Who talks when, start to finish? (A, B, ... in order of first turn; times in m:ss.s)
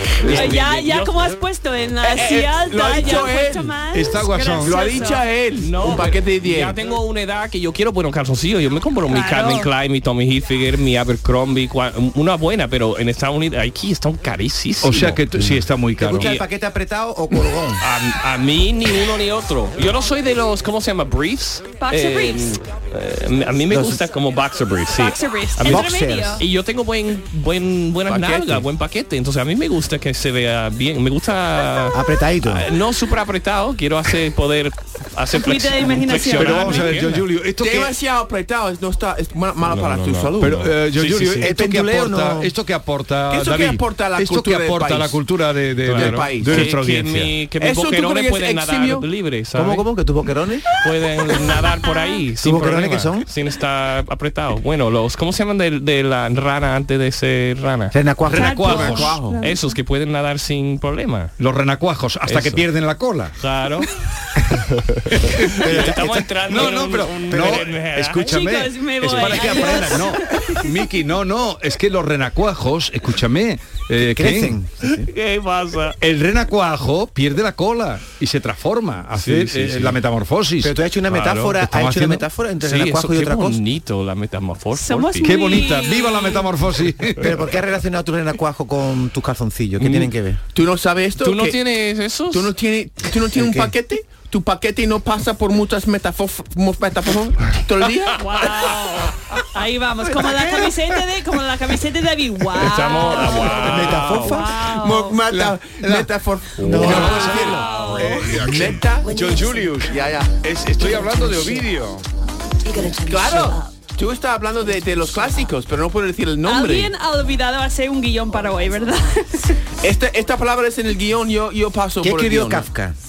0:00.2-0:01.4 A
0:00.2-0:05.3 B
0:02.0-0:03.7 C
0:03.9-0:04.8 D
0:04.6-0:06.8 C
0:05.6-0:15.2 A
0:09.1-0:09.7 B
0:14.8-0:16.3 D
0:16.0-0:17.8 E
0:16.2-0:16.4 A
0:17.8-0:25.8 A
0:21.8-0:22.6 B
0:23.7-0:24.0 E
0:25.0-0:26.4 B
0:25.6-0:26.4 E
0:26.4-0:37.3 A
0:28.1-0:28.7 C
0:31.9-0:32.7 E
0:35.3-0:37.0 B
0:36.4-0:37.9 D
0:37.6-0:40.7 C
0:39.6-0:41.5 A
0:40.4-0:47.4 D
0:41.4-0:42.5 E
0:43.3-0:45.2 C
0:45.8-0:49.9 A
0:45.9-0:46.7 C
0:47.6-0:49.1 C
0:49.6-0:50.7 E
0:50.8-0:58.0 A
0:51.3-0:52.2 B
0:52.4-0:53.3 E
0:57.9-0:58.8 E
0:58.3-0:59.2 D
0:58.3-0:59.8 B
0:58.8-0:59.4 C
0:59.4-1:01.3 A
1:01.4-1:03.3 D
1:02.3-1:02.6 A
1:03.4-1:03.9 A
1:05.2-1:14.6 D
1:05.4-1:08.4 A
1:05.6-1:06.8 E
1:07.3-1:07.6 E
1:08.2-1:10.9 B
1:09.0-1:09.9 A
1:14.0-1:15.1 E
1:15.0-1:16.0 A
1:16.0-1:20.8 D
1:19.2-1:20.0 A
1:20.6-1:23.6 E
1:21.1-1:21.6 A
1:21.6-1:22.2 D
1:22.6-1:25.6 A
1:24.8-1:26.5 B
1:25.2-1:27.3 D
1:27.2-1:30.4 E
1:29.8-1:30.1 A
1:30.5-1:31.6 C
1:31.2-1:32.6 A
1:32.3-1:38.3 C
1:33.3-1:33.7 E
1:38.2-1:45.2 B
1:42.5-1:44.5 A
1:43.4-1:44.5 E
1:44.8-1:49.2 C
1:45.3-1:45.9 D
1:46.6-1:48.5 A
1:46.6-1:47.6 E
1:46.7-1:52.0 D
1:48.0-1:48.3 B
1:49.9-1:50.4 C
1:53.0-1:56.9 C
1:56.4-1:59.6 B
1:59.8-2:02.7 C
2:02.0-2:03.0 E